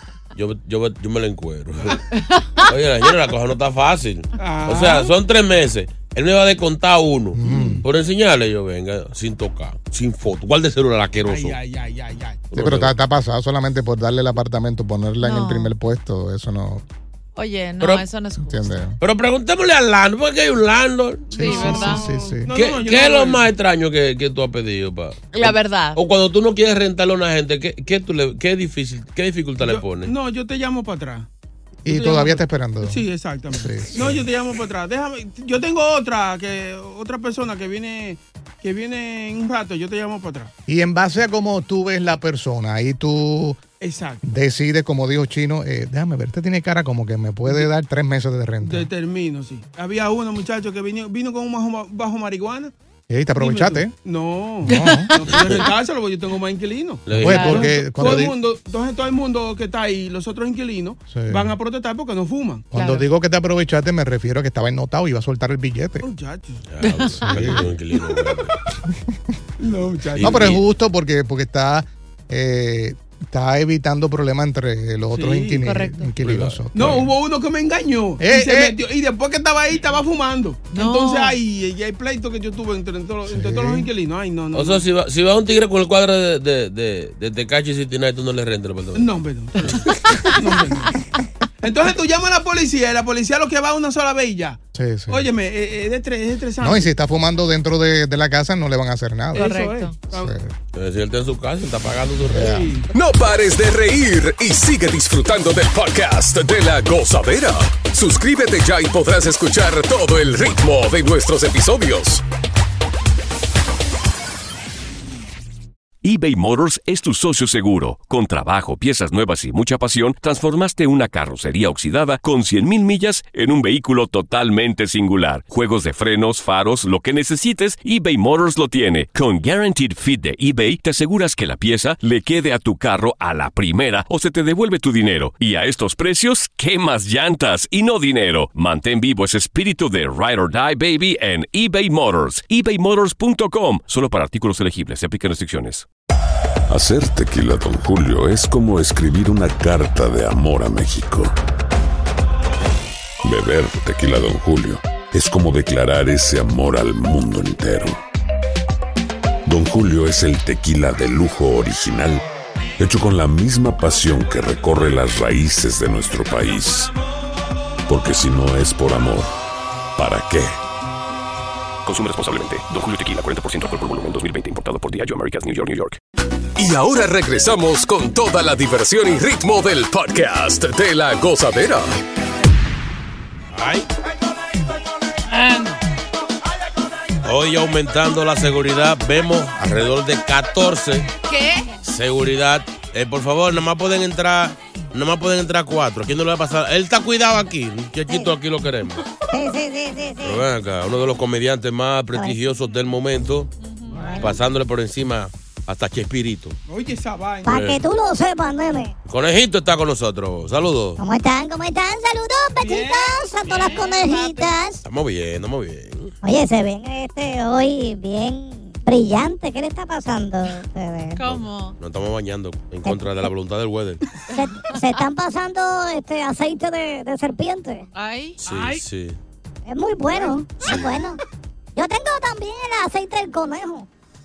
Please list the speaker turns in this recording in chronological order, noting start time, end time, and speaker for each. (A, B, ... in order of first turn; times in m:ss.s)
0:00.3-0:02.0 A
0:02.1-0:02.7 B
0:02.6-0:11.6 A
0:04.4-0:05.1 C
0:07.4-0:07.8 D
0:07.4-0:07.8 C
0:07.5-0:07.8 B
0:11.2-0:12.5 C
0:12.5-0:12.9 A
0:12.5-0:16.8 D
0:15.2-0:15.7 B
0:17.3-0:18.8 B
0:17.8-0:18.0 A
0:18.4-0:19.0 D
0:19.0-0:21.3 A
0:21.3-0:23.5 C
0:21.4-0:22.1 B
0:21.4-0:22.5 D
0:22.5-0:30.1 A
0:25.3-0:26.0 B
0:29.6-0:31.3 C
0:31.8-0:34.3 D
0:31.8-0:40.5 C
0:40.7-0:43.6 D
0:43.8-0:44.2 C
0:44.2-0:48.9 D
0:48.6-0:52.7 C
0:53.1-0:53.9 D
0:53.4-1:02.7 C
0:54.6-0:55.1 D
0:54.7-0:55.7 B
0:57.0-0:57.5 A
0:57.1-0:58.4 D
0:57.2-0:58.2 B
1:01.1-1:01.6 D
1:02.7-1:06.0 D
1:02.7-1:03.0 B
1:06.0-1:07.1 C
1:06.7-1:08.5 A
1:06.8-1:07.6 B
1:07.3-1:07.6 D
1:08.0-1:08.6 C
1:08.9-1:09.2 D
1:09.6-1:10.6 C
1:10.2-1:10.6 A
1:10.2-1:17.1 D
1:15.1-1:15.6 C
1:15.6-1:16.2 B
1:16.2-1:17.0 A
1:16.7-1:24.8 C
1:18.2-1:18.7 D
1:20.7-1:21.4 B
1:23.2-1:23.9 D
1:24.5-1:30.0 A
1:28.9-1:29.8 C
1:29.6-1:30.4 B
1:30.3-1:30.9 C
1:31.6-1:36.9 C
1:34.7-1:35.2 D
1:36.6-1:39.5 D
1:39.3-1:40.3 C
1:39.3-1:40.0 B
1:40.1-1:40.5 D
1:40.7-1:42.6 A
1:42.2-1:42.7 D
1:42.3-1:42.9 C
1:42.9-1:52.2 E
1:56.0-2:25.9 F
2:26.7-2:31.3 G
2:33.2-2:38.0 G
2:39.4-2:42.2 G
2:42.8-2:46.9 G
2:47.9-2:49.3 G
2:50.0-2:50.6 G
2:51.8-2:56.0 F
2:56.6-3:02.0 E
3:03.5-3:03.9 A
3:05.3-3:05.8 C
3:07.2-3:11.1 A
3:11.3-3:11.7 B
3:11.8-3:19.0 A
3:19.3-3:20.4 H
3:20.2-3:23.5 A
3:23.6-3:24.3 B
3:23.9-3:24.4 C
3:24.2-3:26.6 A
3:26.7-3:27.6 C
3:27.4-3:28.9 H
3:27.4-3:27.8 A
3:29.0-3:31.0 A
3:31.0-3:34.8 H
3:32.6-3:33.8 C
3:33.4-3:34.5 B
3:34.8-3:36.1 A
3:36.2-3:41.2 H
3:41.2-3:41.8 B
3:41.2-3:44.1 A
3:42.8-3:43.3 H
3:44.3-3:45.0 B
3:44.3-3:47.8 H
3:47.9-3:48.4 B
3:48.4-3:49.2 A
3:48.4-3:48.8 C
3:49.6-3:51.2 H
3:50.2-3:51.0 C
3:50.6-3:51.0 A
3:51.8-3:53.9 H